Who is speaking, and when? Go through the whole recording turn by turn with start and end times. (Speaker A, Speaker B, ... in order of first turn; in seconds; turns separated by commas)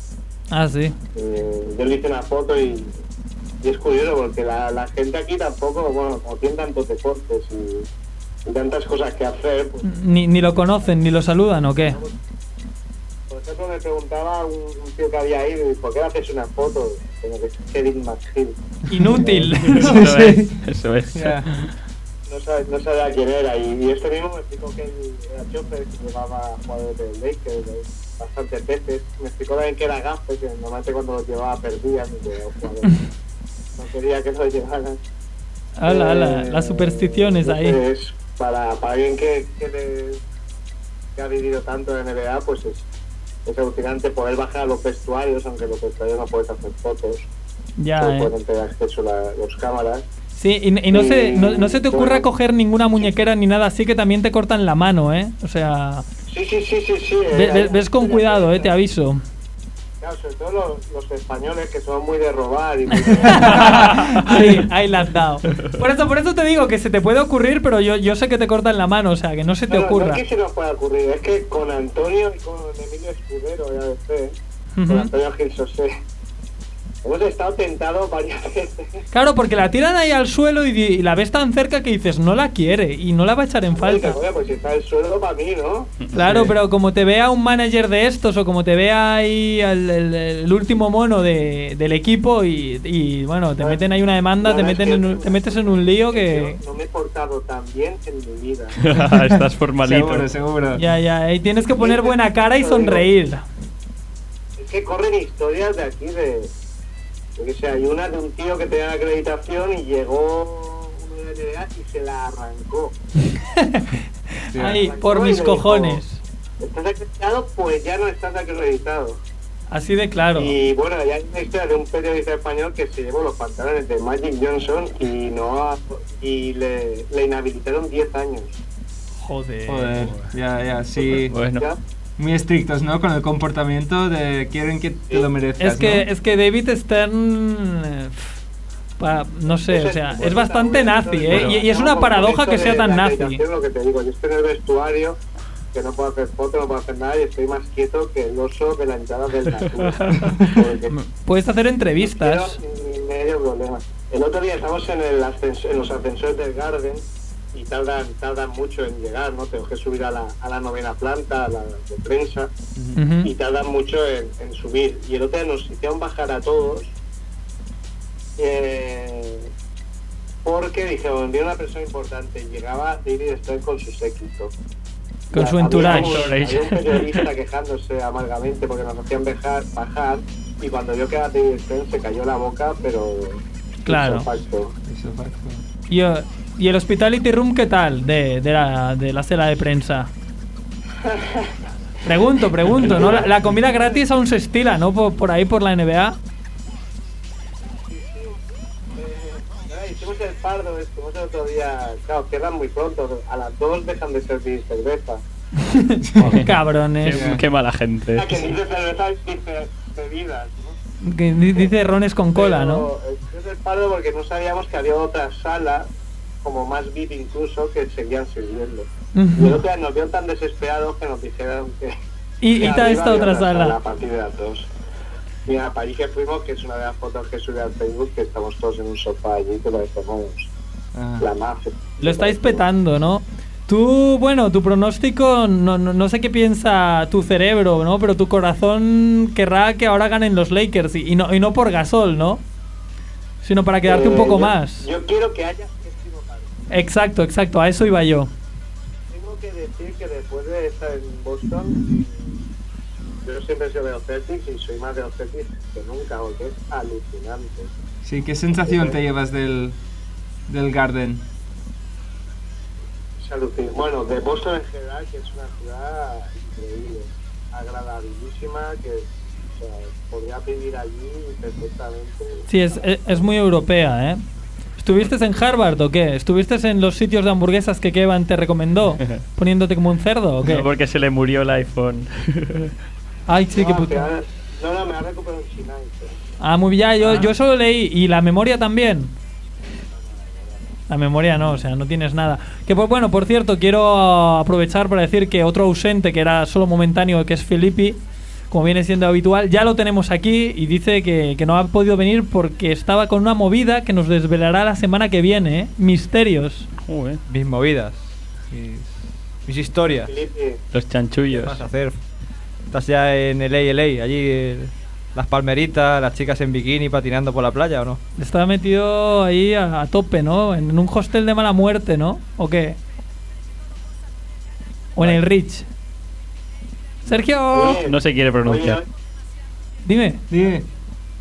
Speaker A: 0.5-0.9, Speaker B: 1.1-2.9, Speaker B: 3.6-7.9, Speaker B: 8.5-9.8, Speaker A: 9.8-12.0, Speaker B: 11.8-12.1, Speaker B: 13.3-18.6, Speaker A: 18.9-20.2, Speaker C: 19.2-20.6, Speaker D: 19.6-21.6, Speaker C: 21.1-21.5, Speaker B: 22.3-33.0, Speaker B: 33.8-35.0, Speaker A: 35.8-37.8, Speaker B: 35.9-40.2, Speaker B: 41.2-42.9, Speaker B: 43.5-47.3, Speaker A: 47.8-48.3, Speaker B: 48.0-50.1, Speaker A: 50.3-56.0, Speaker B: 50.9-52.2, Speaker B: 56.3-58.7, Speaker A: 57.3-59.2, Speaker B: 60.0-64.0, Speaker A: 63.2-70.2, Speaker D: 63.8-64.2, Speaker B: 69.7-74.3, Speaker A: 74.8-75.1, Speaker B: 74.9-75.9, Speaker B: 77.0-79.0, Speaker A: 79.1-84.2, Speaker B: 83.8-85.9, Speaker A: 86.1-96.6, Speaker C: 86.2-86.5, Speaker B: 94.4-98.7, Speaker D: 98.8-100.3, Speaker C: 99.2-100.8, Speaker A: 100.8-103.5, Speaker B: 101.8-103.1, Speaker B: 104.6-106.5, Speaker B: 107.4-113.0, Speaker A: 113.4-116.2, Speaker B: 114.6-116.0, Speaker B: 116.6-119.2, Speaker A: 119.7-120.5, Speaker B: 120.3-128.6, Speaker A: 129.2-130.1, Speaker C: 129.7-131.4, Speaker D: 131.3-131.7, Speaker B: 131.4-131.8, Speaker C: 132.2-136.1, Speaker A: 135.6-138.3, Speaker A: 139.0-143.4, Speaker B: 139.7-145.2, Speaker D: 141.3-141.6, Speaker B: 145.7-150.9, Speaker A: 150.9-152.6, Speaker B: 152.0-162.5, Speaker A: 163.0-163.3, Speaker B: 163.2-166.9, Speaker B: 168.4-169.5, Speaker B: 170.4-174.5, Speaker B: 175.3-184.7, Speaker A: 175.3-176.4, Speaker D: 175.8-177.2, Speaker A: 183.9-184.3, Speaker C: 184.9-185.6, Speaker A: 185.9-190.1, Speaker B: 191.0-191.6, Speaker A: 192.1-196.2, Speaker B: 192.8-193.3, Speaker B: 197.8-198.4, Speaker B: 199.0-205.2, Speaker A: 205.6-207.4, Speaker C: 206.1-206.5, Speaker D: 207.0-208.4, Speaker C: 207.1-207.4, Speaker B: 208.2-210.8, Speaker A: 211.0-212.9, Speaker B: 212.3-215.9, Speaker B: 216.4-221.9, Speaker A: 219.1-219.6, Speaker A: 222.4-223.8, Speaker B: 222.5-224.7, Speaker B: 225.5-230.5, Speaker C: 230.9-231.2, Speaker B: 231.2-232.6, Speaker A: 232.0-242.4, Speaker A: 243.4-244.9, Speaker B: 243.9-246.5, Speaker A: 246.7-248.3, Speaker B: 249.1-252.4, Speaker B: 253.2-257.7, Speaker C: 258.1-259.8, Speaker B: 258.6-259.0, Speaker C: 260.5-261.2, Speaker B: 263.2-273.2, Speaker A: 272.5-274.2, Speaker A: 274.8-280.6, Speaker D: 280.4-282.7, Speaker A: 283.3-284.1, Speaker B: 283.5-286.2, Speaker A: 286.4-289.1, Speaker B: 290.0-290.7, Speaker A: 290.9-298.0, Speaker A: 298.5-306.7, Speaker D: 306.8-307.2, Speaker E: 307.3-308.9, Speaker E: 309.4-310.1, Speaker B: 310.1-310.6, Speaker D: 310.7-311.6, Speaker E: 311.3-312.0, Speaker E: 312.7-318.0, Speaker A: 318.2-322.8, Speaker A: 325.0-325.7, Speaker A: 327.1-327.8, Speaker B: 327.5-328.9, Speaker D: 327.7-328.8, Speaker A: 329.9-330.2, Speaker C: 330.3-330.7